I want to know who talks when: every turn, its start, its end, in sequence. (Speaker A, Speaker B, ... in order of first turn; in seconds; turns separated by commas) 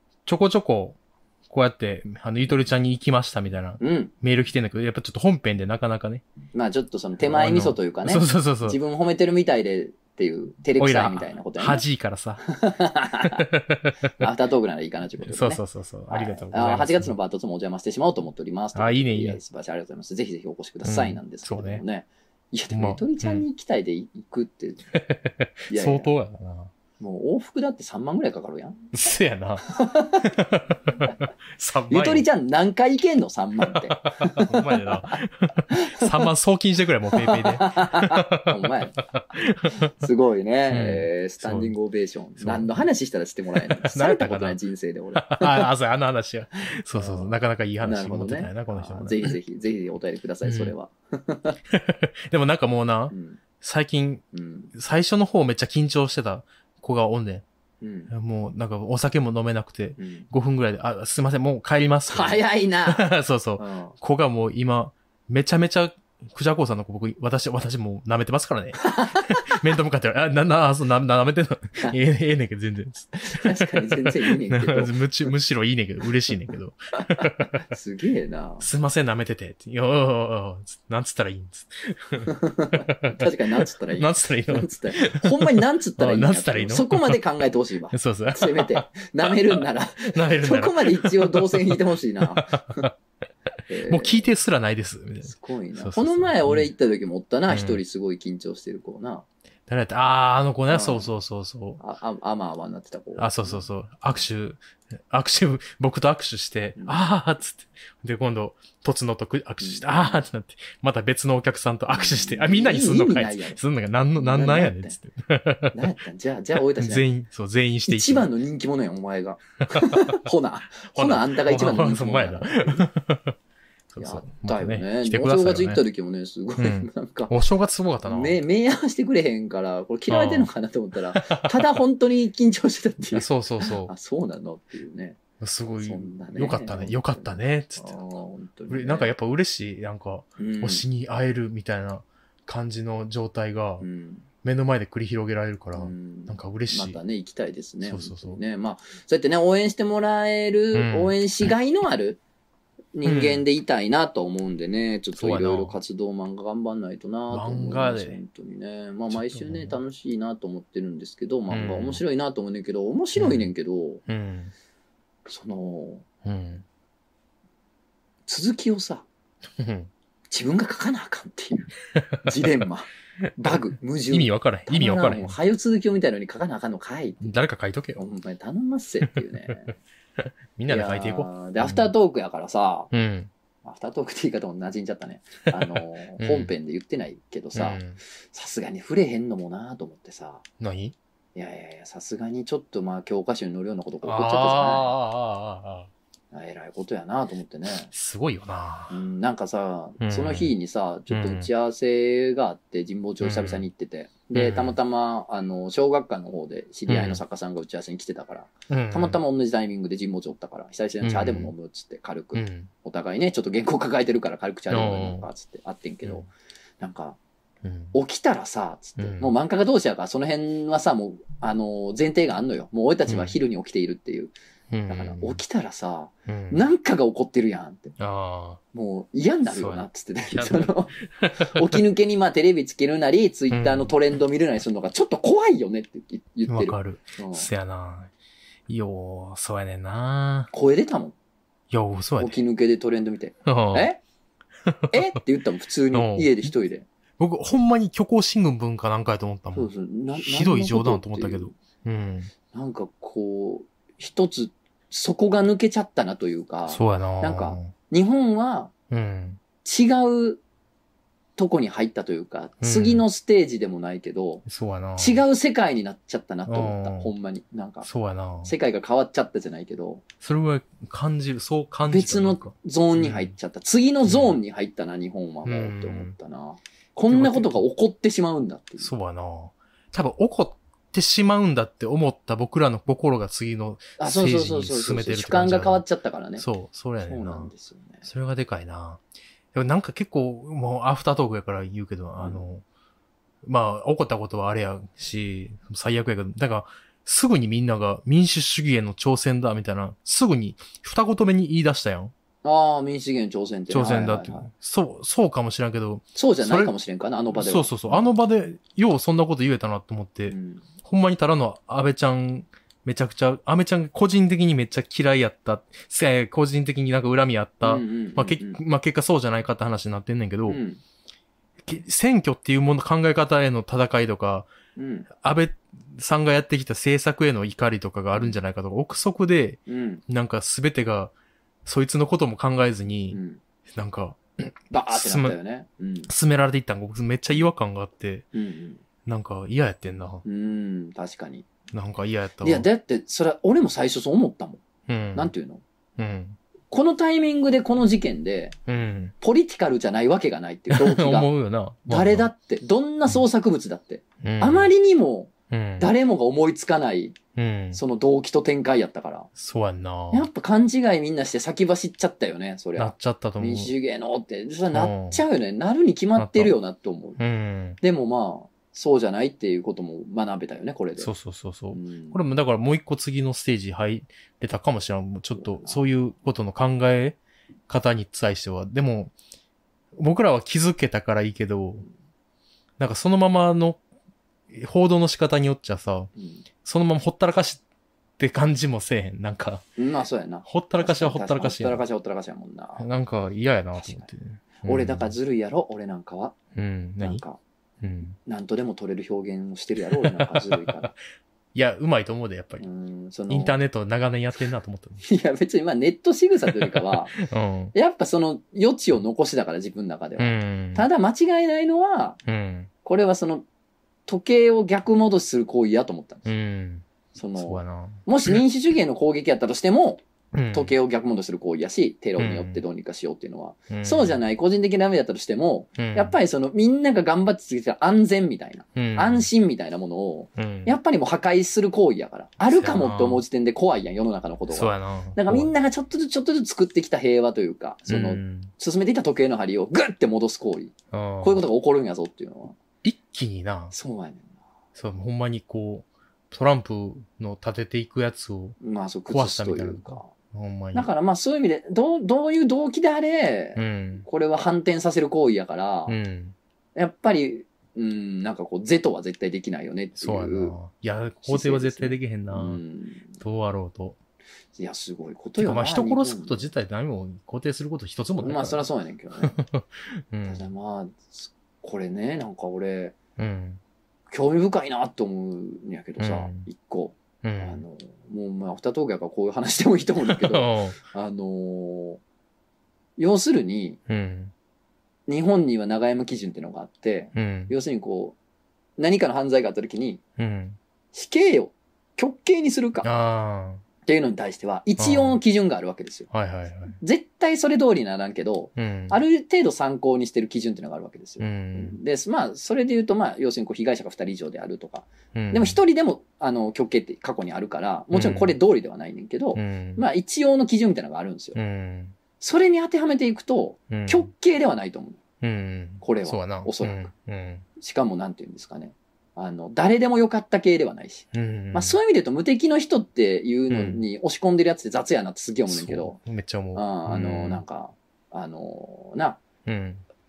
Speaker A: 0.3-6.2, Speaker B: 3.8-4.1, Speaker B: 6.5-11.8, Speaker A: 7.2-8.8, Speaker A: 10.8-12.5, Speaker B: 12.4-13.5, Speaker A: 13.4-14.3, Speaker B: 14.2-24.8, Speaker A: 15.2-17.1, Speaker A: 18.8-19.4, Speaker A: 20.8-21.8, Speaker A: 22.7-23.4, Speaker A: 24.9-26.7, Speaker B: 25.7-26.1, Speaker B: 27.0-28.8, Speaker A: 28.9-29.7, Speaker B: 29.6-30.4, Speaker A: 30.2-32.3, Speaker B: 31.9-35.2, Speaker A: 33.6-39.9, Speaker B: 35.7-36.2, Speaker B: 37.1-39.0, Speaker B: 39.8-45.7, Speaker A: 40.7-41.7, Speaker A: 42.4-42.8, Speaker A: 43.6-44.6, Speaker A: 45.1-49.4, Speaker B: 46.9-51.6, Speaker A: 50.4-50.7, Speaker A: 51.7-54.2, Speaker B: 53.1-53.4, Speaker B: 54.3-54.7, Speaker A: 54.8-57.5, Speaker B: 57.8-58.1, Speaker A: 58.1-77.6, Speaker B: 60.0-60.3, Speaker B: 62.1-64.0, Speaker B: 68.8-69.4, Speaker B: 73.2-75.0, Speaker B: 77.6-78.7, Speaker A: 78.6-87.2, Speaker B: 82.2-92.8, Speaker A: 87.9-93.0, Speaker B: 93.7-94.3, Speaker A: 93.9-96.7, Speaker B: 95.2-99.3, Speaker A: 97.5-97.8, Speaker A: 99.7-101.8, Speaker B: 100.7-101.1, Speaker B: 101.8-103.7, Speaker A: 103.2-115.8, Speaker B: 106.8-107.0, Speaker B: 109.6-110.2, Speaker B: 111.9-113.6, Speaker B: 114.2-115.0, Speaker B: 115.7-117.1, Speaker A: 116.6-118.3, Speaker B: 117.9-122.9, Speaker A: 119.7-120.2, Speaker A: 120.9-123.4, Speaker A: 123.9-125.8, Speaker B: 124.0-127.3, Speaker A: 126.6-128.4, Speaker B: 128.0-135.2, Speaker A: 130.1-130.5, Speaker A: 131.2-131.7, Speaker A: 133.1-133.9, Speaker A: 135.4-137.9, Speaker B: 135.8-139.1, Speaker A: 138.7-143.9, Speaker B: 140.4-140.8, Speaker B: 143.8-144.3, Speaker A: 144.4-147.0, Speaker B: 145.8-152.2, Speaker A: 147.8-148.4, Speaker A: 150.7-151.5, Speaker B: 152.9-164.0, Speaker A: 153.0-153.4, Speaker A: 155.1-155.8, Speaker A: 157.3-158.2, Speaker A: 159.1-159.8, Speaker A: 161.5-162.0, Speaker A: 163.2-163.5, Speaker A: 164.1-164.5, Speaker B: 165.3-166.1, Speaker A: 166.2-166.7, Speaker B: 168.3-169.1, Speaker A: 169.6-169.9, Speaker B: 170.3-177.4, Speaker A: 171.9-172.3, Speaker A: 174.1-175.4, Speaker A: 177.2-178.0, Speaker B: 178.0-179.8, Speaker A: 179.1-179.6, Speaker A: 180.2-181.9, Speaker B: 180.7-182.9, Speaker A: 182.9-183.3, Speaker B: 183.6-190.4, Speaker A: 185.5-186.5, Speaker A: 187.5-188.0, Speaker A: 190.6-191.0, Speaker B: 191.3-194.9, Speaker A: 194.0-195.9, Speaker B: 196.3-197.9, Speaker A: 197.7-199.0, Speaker B: 198.9-217.2, Speaker A: 200.0-200.5, Speaker A: 201.1-201.5, Speaker A: 203.2-203.6, Speaker A: 204.3-204.8, Speaker A: 206.9-207.2, Speaker A: 208.7-209.2, Speaker A: 211.0-211.5, Speaker A: 212.3-212.7, Speaker A: 214.7-215.3, Speaker A: 217.6-217.9, Speaker B: 217.9-224.3, Speaker A: 219.0-219.3, Speaker A: 223.1-223.4, Speaker A: 224.7-225.4, Speaker B: 224.9-228.0, Speaker A: 226.3-226.7, Speaker A: 228.0-228.6, Speaker B: 228.7-237.5, Speaker A: 229.5-231.8, Speaker A: 233.5-233.9, Speaker A: 236.5-238.1, Speaker A: 238.7-240.5, Speaker B: 240.5-241.2, Speaker A: 241.7-242.4, Speaker B: 242.2-244.0, Speaker A: 243.4-243.9, Speaker A: 244.7-245.1, Speaker B: 244.9-246.9, Speaker A: 245.9-246.5, Speaker A: 247.2-252.3, Speaker B: 249.5-251.5, Speaker B: 252.5-258.7, Speaker A: 256.7-257.7, Speaker A: 258.9-259.4, Speaker B: 259.6-260.4, Speaker B: 261.4-264.4, Speaker A: 262.6-263.0, Speaker A: 264.5-265.2, Speaker B: 265.0-267.9, Speaker A: 266.5-267.1, Speaker A: 267.8-268.5, Speaker B: 268.4-270.0, Speaker A: 270.2-273.3, Speaker B: 271.9-278.9, Speaker A: 274.1-274.4, Speaker A: 275.4-276.1, Speaker A: 277.1-277.7, Speaker A: 278.8-285.8, Speaker B: 284.0-286.5, Speaker A: 286.4-287.5, Speaker B: 287.0-288.1, Speaker A: 288.1-289.0, Speaker A: 289.5-292.6, Speaker B: 292.2-292.4, Speaker A: 293.4-302.1, Speaker B: 302.4-304.5, Speaker A: 303.7-306.7, Speaker B: 306.2-308.1, Speaker A: 307.3-320.6, Speaker B: 310.3-310.6, Speaker B: 317.6-318.6, Speaker B: 320.5-320.8, Speaker A: 321.6-324.5, Speaker B: 324.8-325.1, Speaker A: 325.2-331.1, Speaker B: 329.7-330.0, Speaker A: 331.6-333.2, Speaker B: 333.1-333.4, Speaker A: 333.7-335.4, Speaker B: 334.7-336.1, Speaker A: 336.1-338.3, Speaker B: 338.3-338.8, Speaker A: 339.1-340.2, Speaker B: 340.2-341.5, Speaker A: 341.7-342.7, Speaker B: 342.4-344.6, Speaker A: 344.9-345.3, Speaker B: 345.1-345.6, Speaker A: 346.0-346.4, Speaker B: 346.7-348.6, Speaker A: 348.7-349.1, Speaker B: 349.2-351.3, Speaker A: 350.7-352.3, Speaker B: 351.9-357.2, Speaker A: 354.2-354.7, Speaker A: 355.5-355.9, Speaker A: 357.4-357.8, Speaker B: 357.7-359.3, Speaker A: 359.4-360.3, Speaker B: 360.1-367.2, Speaker A: 362.8-363.7, Speaker A: 364.7-365.2, Speaker A: 366.2-366.6, Speaker A: 367.2-367.8, Speaker B: 367.8-371.1, Speaker A: 371.0-377.2, Speaker B: 371.7-372.2, Speaker B: 375.4-375.8, Speaker A: 377.7-379.1, Speaker A: 380.0-381.9, Speaker A: 382.8-383.8, Speaker A: 384.5-386.1, Speaker B: 386.2-386.4, Speaker A: 386.6-387.6, Speaker A: 388.2-389.6, Speaker B: 389.8-392.9, Speaker A: 390.5-391.8, Speaker A: 392.8-395.1, Speaker B: 393.8-394.1, Speaker B: 394.6-396.4, Speaker A: 396.6-397.2, Speaker B: 397.0-397.4, Speaker A: 397.8-398.2, Speaker B: 398.3-400.9, Speaker A: 399.9-400.9, Speaker A: 401.5-402.6, Speaker B: 402.6-403.6, Speaker A: 403.3-405.0, Speaker B: 405.0-407.2, Speaker A: 406.5-407.7, Speaker B: 407.7-412.2, Speaker A: 410.2-410.9, Speaker A: 412.3-412.7, Speaker B: 412.8-413.4, Speaker B: 414.1-416.3, Speaker A: 416.3-416.9, Speaker B: 417.1-420.0, Speaker A: 417.4-418.4, Speaker A: 420.3-420.7, Speaker B: 420.5-442.6, Speaker A: 422.2-422.6, Speaker A: 423.7-424.2, Speaker A: 425.8-426.1, Speaker A: 428.8-429.3, Speaker A: 430.4-430.8, Speaker A: 432.5-433.2, Speaker A: 434.5-435.5, Speaker A: 437.9-438.5, Speaker A: 440.9-441.4, Speaker A: 442.8-443.7, Speaker B: 443.7-444.3, Speaker A: 444.8-448.6, Speaker B: 448.6-450.1, Speaker A: 449.1-450.9, Speaker B: 450.7-456.0, Speaker A: 453.6-454.1, Speaker A: 455.9-456.4, Speaker B: 456.8-460.6, Speaker A: 460.0-462.6, Speaker B: 461.2-463.2, Speaker A: 463.2-464.0, Speaker B: 464.6-466.5, Speaker A: 465.4-468.7, Speaker B: 468.2-469.4, Speaker A: 469.2-470.4, Speaker B: 470.3-473.0, Speaker A: 473.2-473.6, Speaker B: 474.1-482.0, Speaker A: 476.0-476.5, Speaker A: 477.2-477.6, Speaker A: 480.1-480.8, Speaker B: 483.0-483.8, Speaker A: 483.9-484.3, Speaker B: 485.1-488.2, Speaker A: 487.1-487.5, Speaker B: 488.8-490.0, Speaker A: 490.2-490.6, Speaker B: 490.9-492.9, Speaker A: 492.8-493.6, Speaker B: 493.9-496.1, Speaker A: 494.8-495.2, Speaker A: 496.1-496.8, Speaker B: 496.8-511.4, Speaker A: 498.6-499.0, Speaker A: 501.2-501.8, Speaker A: 505.1-505.6, Speaker A: 507.9-508.4, Speaker A: 509.4-509.9, Speaker A: 511.4-512.0, Speaker B: 512.2-515.0, Speaker A: 513.7-514.1, Speaker A: 515.2-517.5, Speaker B: 515.8-516.9, Speaker B: 517.6-526.0, Speaker A: 521.1-521.8, Speaker A: 523.5-523.8, Speaker A: 525.5-527.4, Speaker B: 526.5-529.2, Speaker A: 529.5-529.8